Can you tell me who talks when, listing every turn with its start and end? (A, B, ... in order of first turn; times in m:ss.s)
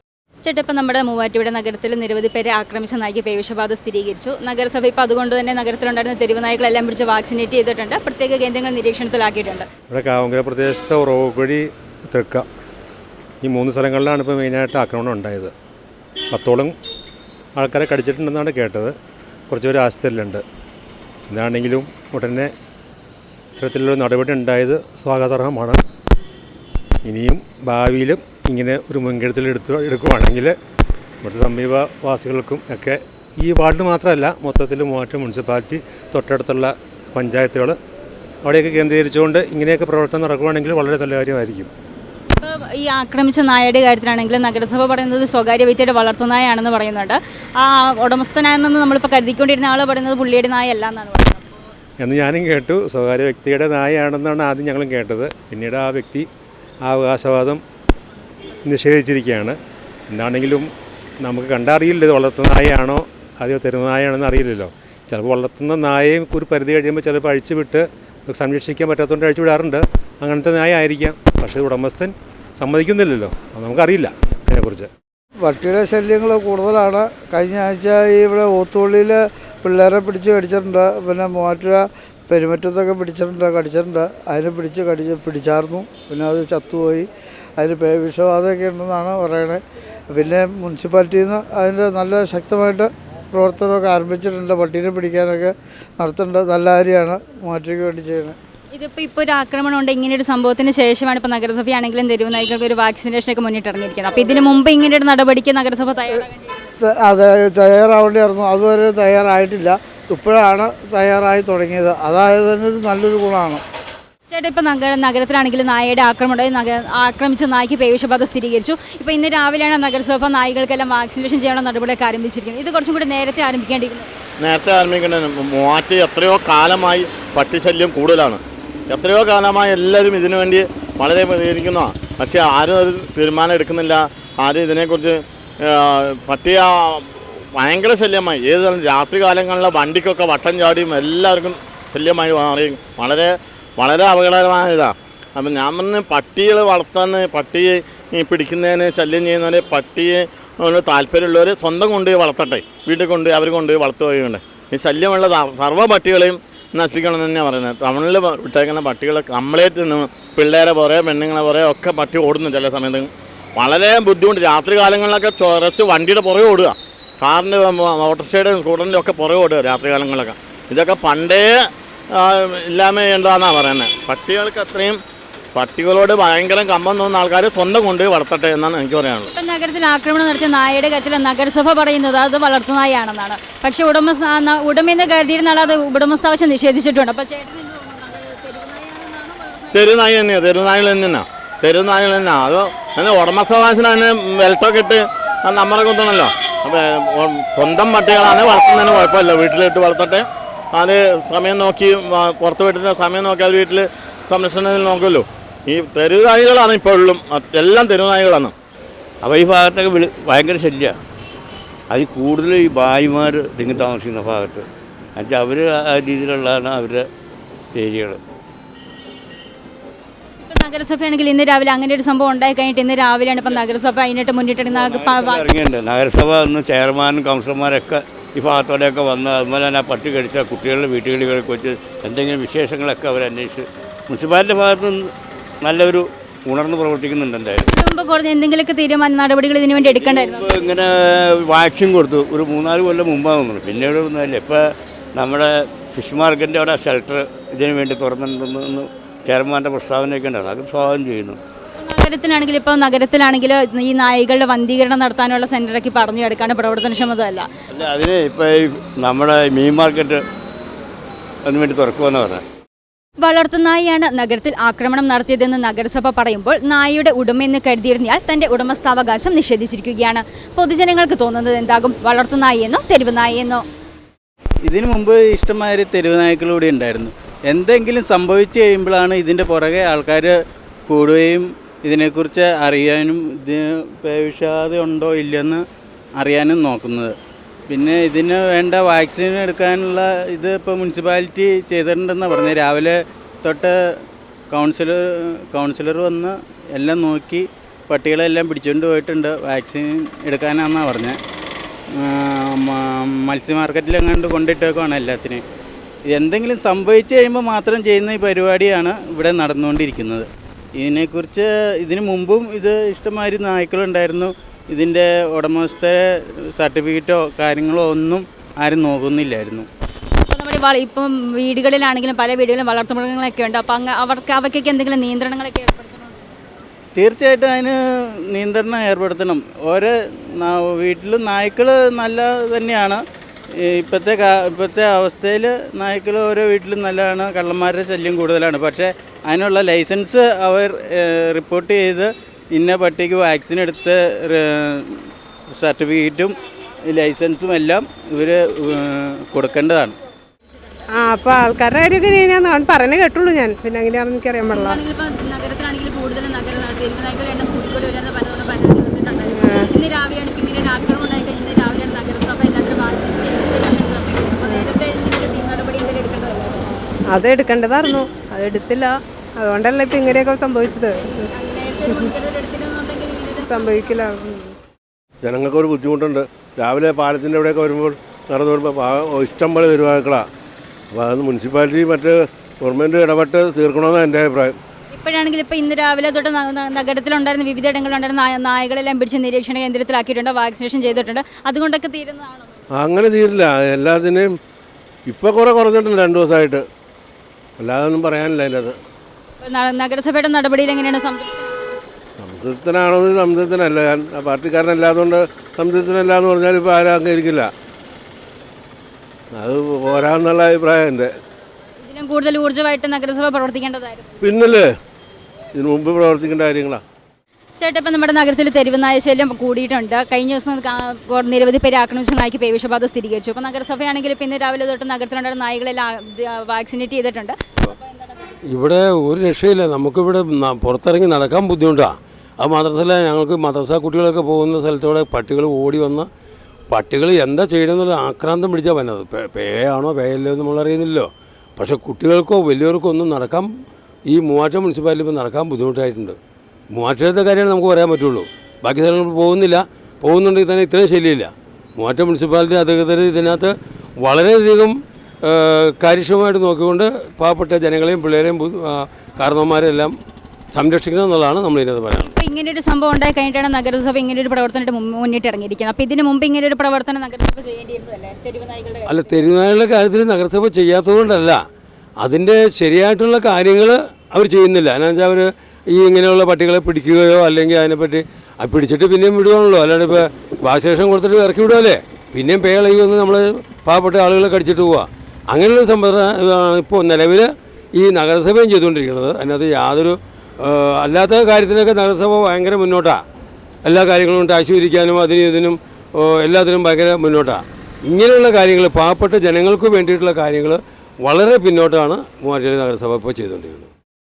0:00.4-0:09.6 A
0:09.9-0:12.4 B
0:13.4-0:15.5 B
0:16.3-0:16.7 B
0:17.6-0:18.9 B
0:19.5-0:20.4 B
0:21.3-0:22.5 B
0:23.6-0:25.8 B
0:27.0-0:30.5 B
0:31.2-0:37.7 B
0:38.4-0:41.7 B
0:42.3-0:51.6 A
0:52.0-0:56.2 B
0:56.8-0:57.6 B
0:58.6-0:59.6 B
1:00.1-1:00.7 B
1:01.2-1:14.9 B
1:15.4-1:38.4 C
1:38.7-1:46.7 A
1:46.8-1:53.6 C
1:54.3-2:04.1 A
2:04.4-2:51.5 D
2:52.2-2:55.0 D
2:55.5-2:59.3 D
2:59.3-3:09.9 A
3:09.7-3:28.5 D
3:29.2-3:30.9 E
3:31.9-3:34.6 E
3:35.2-3:37.0 E
3:37.7-3:38.2 E
3:40.4-3:45.5 A
3:44.7-3:55.1 E
3:55.6-3:57.7 E
3:57.6-4:00.5 A
3:59.8-4:04.6 E
4:05.1-4:11.4 E
4:11.8-4:17.5 A
4:17.7-4:20.2 E
4:21.4-4:22.4 E
4:23.2-4:33.6 A
4:34.6-4:40.4 F
4:40.9-4:45.6 F
4:46.2-4:47.1 F
4:47.7-4:53.7 F
4:54.5-5:01.2 F
5:01.9-5:05.4 F
5:06.1-5:19.7 F
5:20.2-5:26.2 A
5:27.0-5:27.8 F
5:28.3-5:33.0 F
5:33.5-5:46.3 F
5:46.9-5:49.9 F
5:51.0-5:54.7 G
5:54.5-6:06.7 A
6:07.1-6:11.0 G
6:11.3-6:14.0 A
6:13.9-6:14.5 G
6:15.2-6:20.2 H
6:20.9-6:24.5 H
6:24.9-6:32.6 A
6:32.8-6:34.3 H
6:35.1-6:36.6 H
6:37.6-6:38.7 H
6:39.4-6:41.8 A
6:42.2-6:47.5 H
6:49.3-6:51.1 H
6:51.8-6:54.1 A
6:54.2-6:54.7 H
6:55.5-6:56.8 H
6:57.6-7:08.3 A
7:08.5-7:16.1 I
7:16.7-7:23.5 I
7:24.1-7:26.2 I
7:26.7-7:39.9 I
7:40.5-7:42.1 I
7:42.0-7:49.1 A
7:48.8-7:51.4 I
7:52.0-8:13.0 I
8:13.6-8:23.7 I